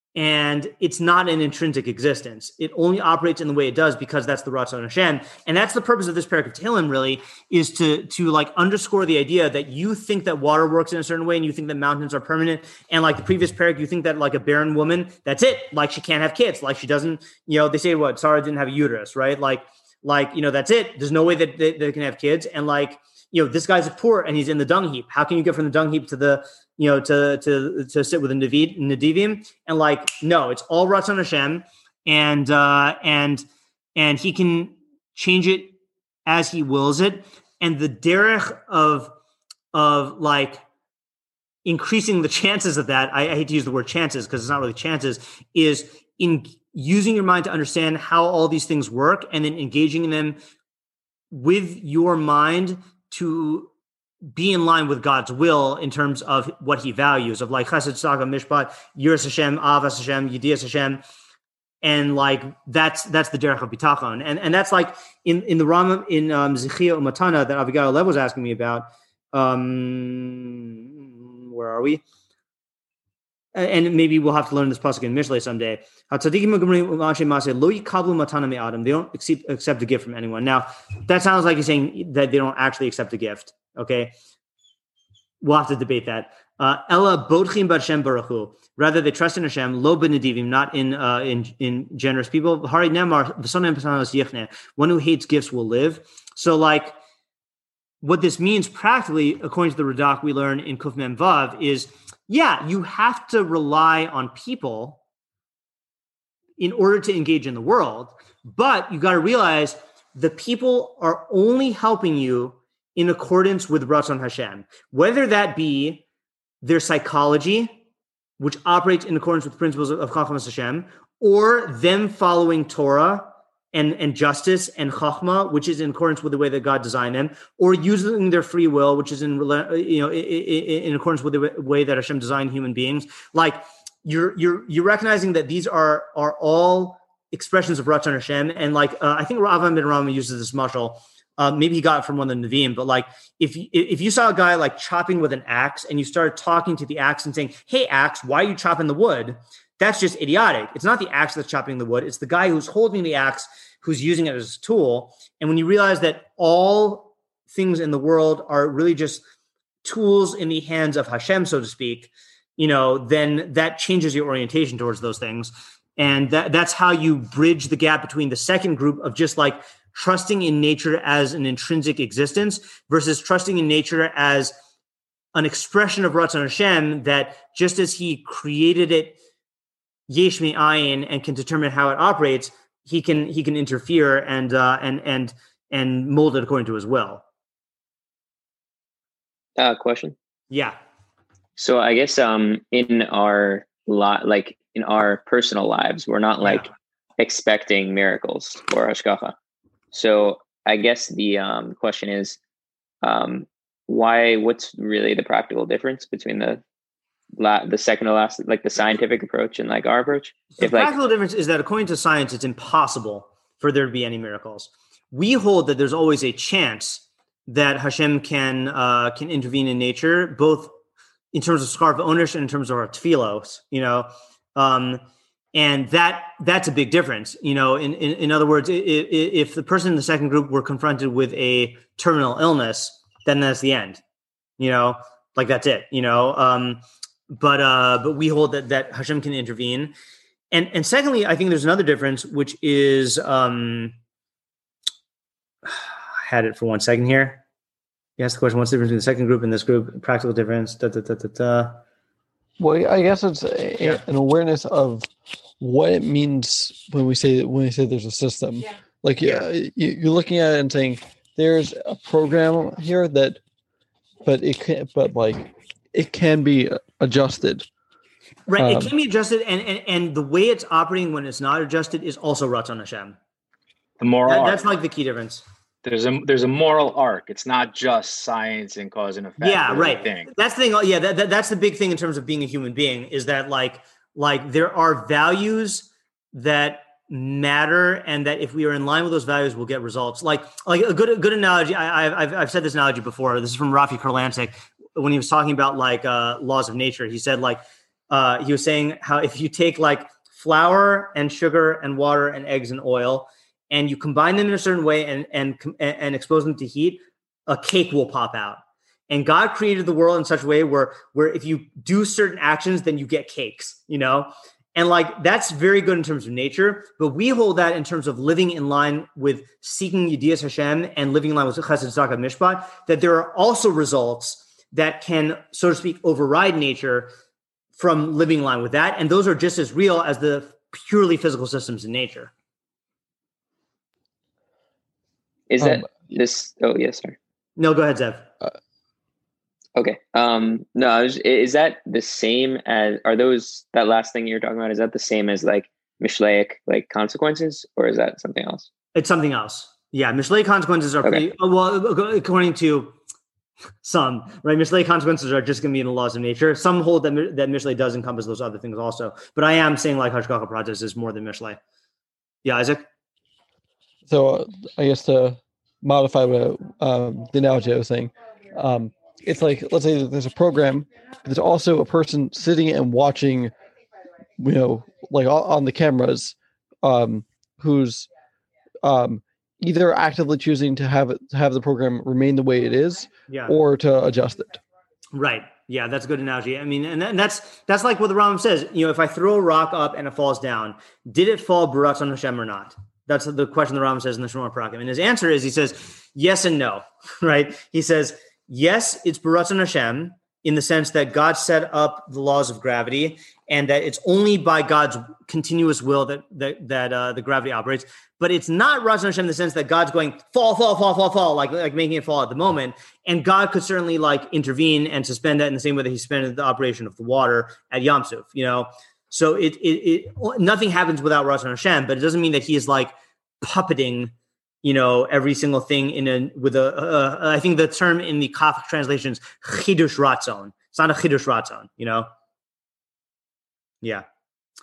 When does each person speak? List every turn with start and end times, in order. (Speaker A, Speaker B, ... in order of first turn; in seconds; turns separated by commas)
Speaker A: 0.1-33.4, Speaker A: 34.0-35.8, Speaker A: 36.3-39.1, Speaker A: 39.7-40.6, Speaker A: 41.6-50.4, Speaker A: 51.3-53.7, Speaker A: 54.3-61.0, Speaker A: 61.8-70.8, Speaker A: 71.4-72.0, Speaker A: 73.5-84.1, Speaker A: 85.4-97.0, Speaker A: 98.0-105.0, Speaker A: 106.6-116.0, Speaker A: 116.6-117.8, Speaker A: 118.4-159.2, Speaker A: 159.8-174.5, Speaker A: 175.3-179.2, Speaker A: 180.1-187.2, Speaker B: 189.6-190.2, Speaker A: 190.5-190.8, Speaker B: 191.6-199.3, Speaker B: 199.9-202.4, Speaker B: 203.0-206.6, Speaker B: 207.4-210.9, Speaker A: 210.6-220.7, Speaker A: 221.3-225.0, Speaker A: 225.5-234.0, Speaker A: 234.6-239.9, Speaker A: 240.5-243.9, Speaker A: 245.7-247.4, Speaker A: 248.2-251.8, Speaker C: 252.6-255.1, Speaker C: 255.6-263.4, Speaker C: 264.2-267.7, Speaker A: 268.5-273.2, Speaker C: 268.6-268.9, Speaker D: 274.0-274.6, Speaker A: 274.3-275.4, Speaker D: 275.8-280.3, Speaker A: 279.4-327.1, Speaker A: 327.8-332.3, Speaker B: 335.5-337.2, Speaker C: 335.6-335.9, Speaker A: 337.6-338.3, Speaker B: 339.8-348.7, Speaker A: 348.9-353.0, Speaker A: 353.8-361.6, Speaker A: 362.4-362.9, Speaker C: 364.1-373.5, Speaker C: 374.4-378.1, Speaker C: 378.8-384.6, Speaker A: 383.3-383.6, Speaker A: 385.1-432.1